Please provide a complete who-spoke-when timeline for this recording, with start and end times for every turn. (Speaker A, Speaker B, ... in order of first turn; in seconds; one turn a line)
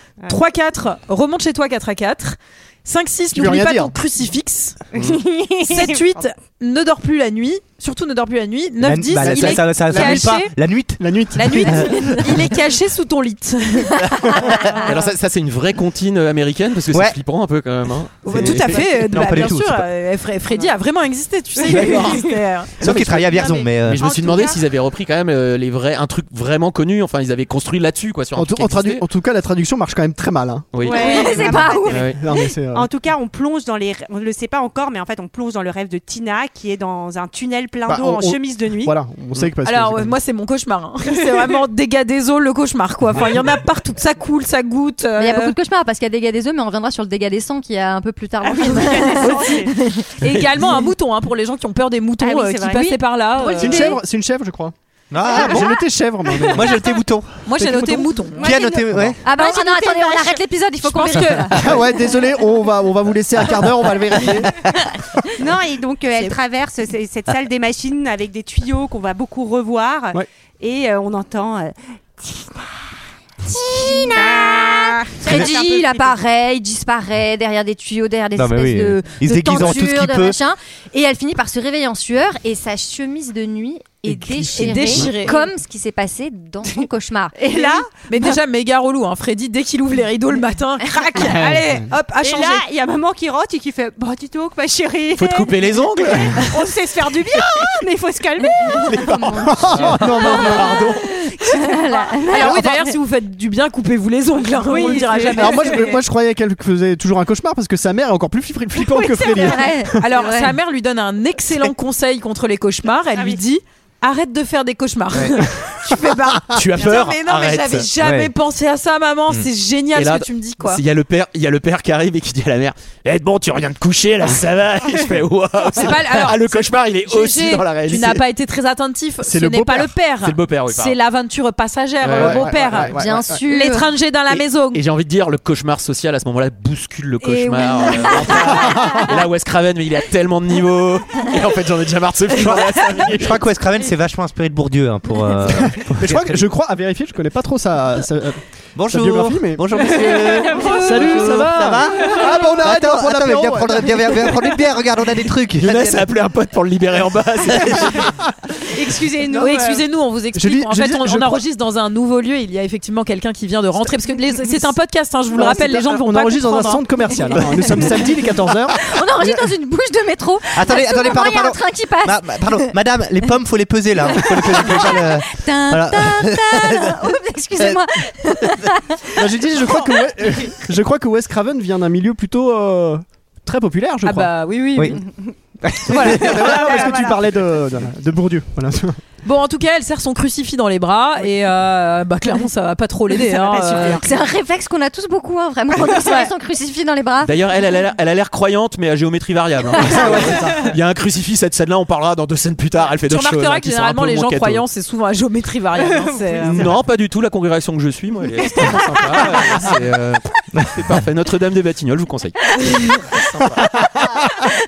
Speaker A: 0.3-4.8
Speaker B: 3.3-3.9
Speaker C: 4.9-6.0
Speaker D: 4.9-5.2
Speaker A: 5.7-10.5
Speaker E: 8.8-12.4
Speaker B: 9.2-10.4
Speaker B: 11.0-11.9
Speaker A: 11.3-14.0
Speaker F: 14.1-14.3
Speaker C: 14.5-15.1
Speaker D: 14.8-18.8
Speaker E: 16.9-17.1
Speaker A: 18.2-22.7
Speaker E: 18.4-19.9
Speaker D: 21.6-22.3
Speaker C: 21.8-22.2
Speaker E: 22.8-24.1
Speaker D: 22.8-23.2
Speaker C: 23.0-24.6
Speaker D: 23.8-29.0
Speaker B: 28.4-30.8
Speaker D: 30.7-31.0
Speaker C: 30.8-38.9
Speaker A: 30.8-31.5
Speaker F: 30.9-32.1
Speaker D: 31.9-32.2
Speaker B: 31.9-32.9
Speaker B: 37.9-40.2
Speaker A: 39.6-45.5
Speaker F: 45.2-50.0
Speaker C: 48.4-49.8
Speaker A: 49.1-54.0
Speaker C: 52.2-53.7
Speaker B: 53.5-54.7
Speaker E: 55.1-55.8
Speaker B: 55.3-56.7
Speaker F: 55.3-55.6
Speaker E: 56.5-57.4
Speaker A: 57.5-58.5
Speaker B: 57.5-58.2
Speaker C: 58.4-60.4
Speaker E: 58.4-59.2
Speaker F: 59.2-61.8
Speaker A: 60.9-61.5
Speaker B: 61.5-64.6
Speaker C: 65.3-72.8
Speaker F: 73.5-87.7
Speaker C: 73.7-76.2
Speaker E: 78.3-80.4
Speaker B: 84.1-85.1
Speaker A: 84.5-85.4
Speaker C: 87.4-87.9
Speaker A: 88.0-92.6
Speaker B: 91.2-91.8
Speaker C: 92.2-99.2
Speaker D: 95.1-96.7
Speaker D: 98.7-100.0
Speaker F: 99.2-99.5
Speaker B: 99.4-101.0
Speaker F: 100.2-102.7
Speaker C: 100.2-100.8
Speaker D: 100.5-100.9
Speaker C: 101.4-102.2
Speaker A: 102.3-105.9
Speaker B: 102.4-102.7
Speaker C: 104.6-106.0
Speaker B: 105.3-110.0
Speaker C: 109.2-109.5
Speaker F: 109.4-110.5
Speaker A: 110.0-120.8
Speaker C: 113.1-113.4
Speaker D: 116.5-117.9
Speaker E: 118.0-118.3
Speaker D: 119.3-128.2
Speaker A: 125.7-132.9
Speaker B: 129.2-129.9
Speaker D: 130.2-130.9
Speaker D: 132.0-132.9
Speaker B: 132.2-133.4
Speaker F: 132.9-133.9
Speaker A: 133.5-134.8
Speaker D: 134.3-143.4
Speaker A: 137.2-138.6
Speaker E: 143.1-146.4
Speaker B: 145.6-149.7
Speaker E: 148.8-156.1
Speaker C: 149.8-151.3
Speaker A: 150.6-151.8
Speaker B: 150.7-154.0
Speaker C: 152.0-152.3
Speaker C: 154.1-154.4
Speaker D: 155.6-158.1
Speaker C: 158.7-159.8
Speaker A: 159.3-166.8
Speaker B: 160.3-161.4
Speaker B: 165.3-169.4
Speaker F: 167.3-168.2
Speaker F: 168.7-172.7
Speaker E: 170.5-177.8
Speaker F: 174.1-179.2
Speaker B: 179.2-184.3
Speaker C: 179.8-180.5
Speaker A: 184.0-185.0
Speaker E: 184.8-185.0
Speaker E: 185.6-186.9
Speaker A: 185.9-186.3
Speaker C: 186.0-187.2
Speaker B: 186.2-188.9
Speaker A: 189.2-194.0
Speaker B: 193.5-194.1
Speaker F: 193.9-197.3
Speaker D: 197.2-204.6
Speaker B: 199.8-200.7
Speaker A: 203.1-206.7
Speaker C: 205.8-206.7
Speaker D: 206.4-213.7